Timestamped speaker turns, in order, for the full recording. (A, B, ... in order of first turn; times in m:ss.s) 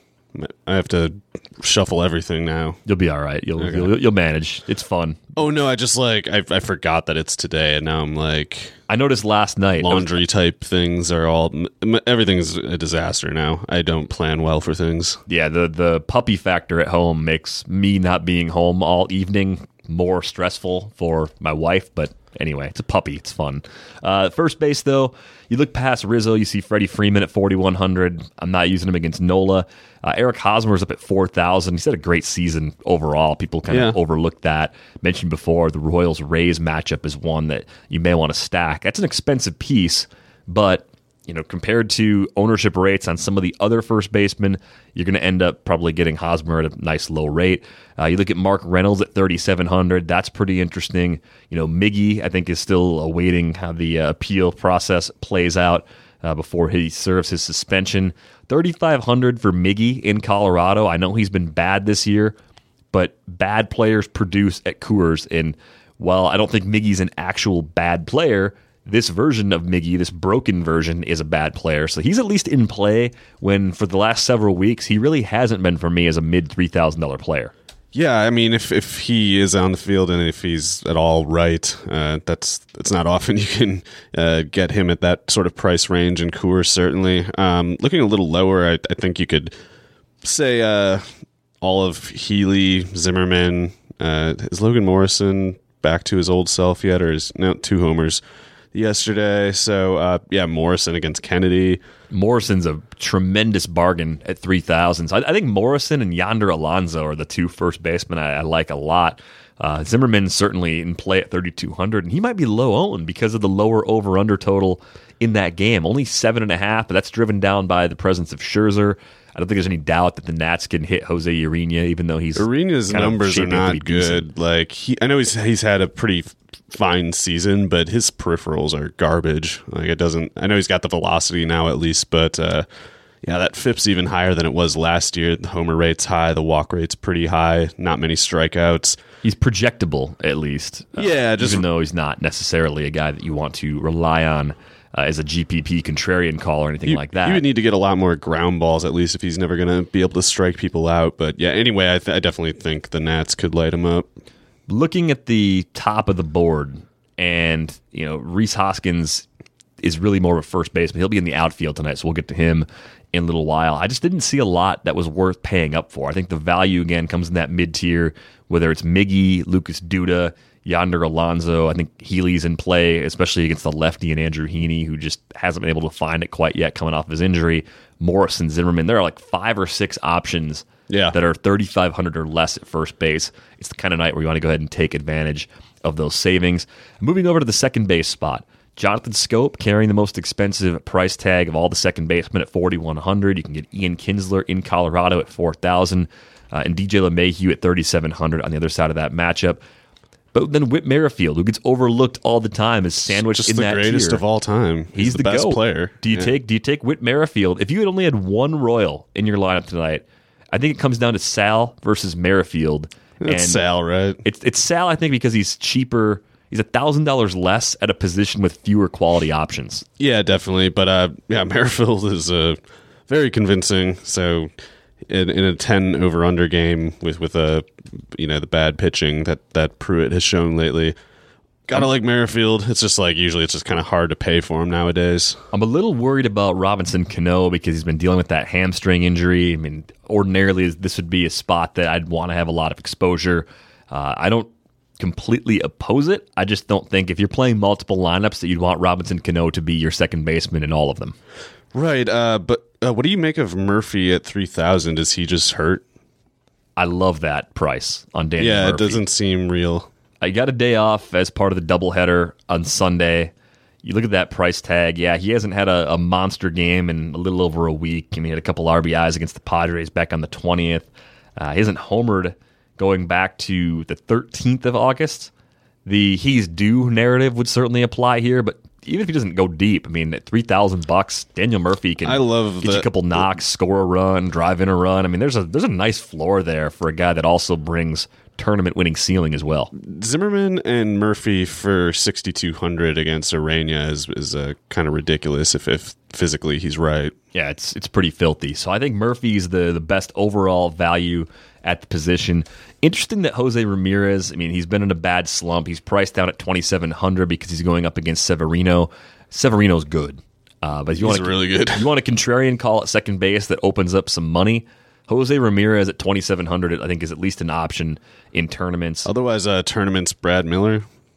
0:00.3-0:02.8 A
0:02.8-0:05.2 B
0:03.6-0:03.9 A
0:05.4-0:08.8 A
0:08.9-0:10.2 B
0:09.8-0:15.2 A
0:15.3-1:02.4 B
0:33.7-0:34.0 A
1:02.9-1:17.5 B
1:17.9-1:29.5 A
1:30.2-1:31.0 A
1:31.6-1:38.2 A
1:38.7-1:41.8 A
1:42.1-2:04.3 B
2:02.4-2:12.7 A
2:13.2-2:19.0 A
2:19.2-2:27.4 B
2:21.0-2:21.6 A
2:26.8-2:34.1 A
2:34.7-2:39.2 B
2:39.8-3:19.6 B
3:00.9-3:01.2 A
3:20.3-3:24.2 B
3:23.1-3:26.3 A
3:24.9-3:33.6 B
3:33.2-3:34.2 A
3:34.2-3:39.8 B
3:40.0-3:44.5 A
3:45.1-3:51.0 A
3:51.7-3:55.4 A
3:55.5-4:11.2 B
4:11.7-4:15.8 A
4:16.8-4:19.0 B
4:18.4-4:19.9 A
4:20.2-4:23.3 B
4:23.8-4:35.3 B
4:35.9-4:49.7 B
4:42.0-4:43.2 A
4:49.7-4:57.1 A
4:57.3-5:19.1 B
5:11.0-5:11.9 A
5:19.0-5:20.9 A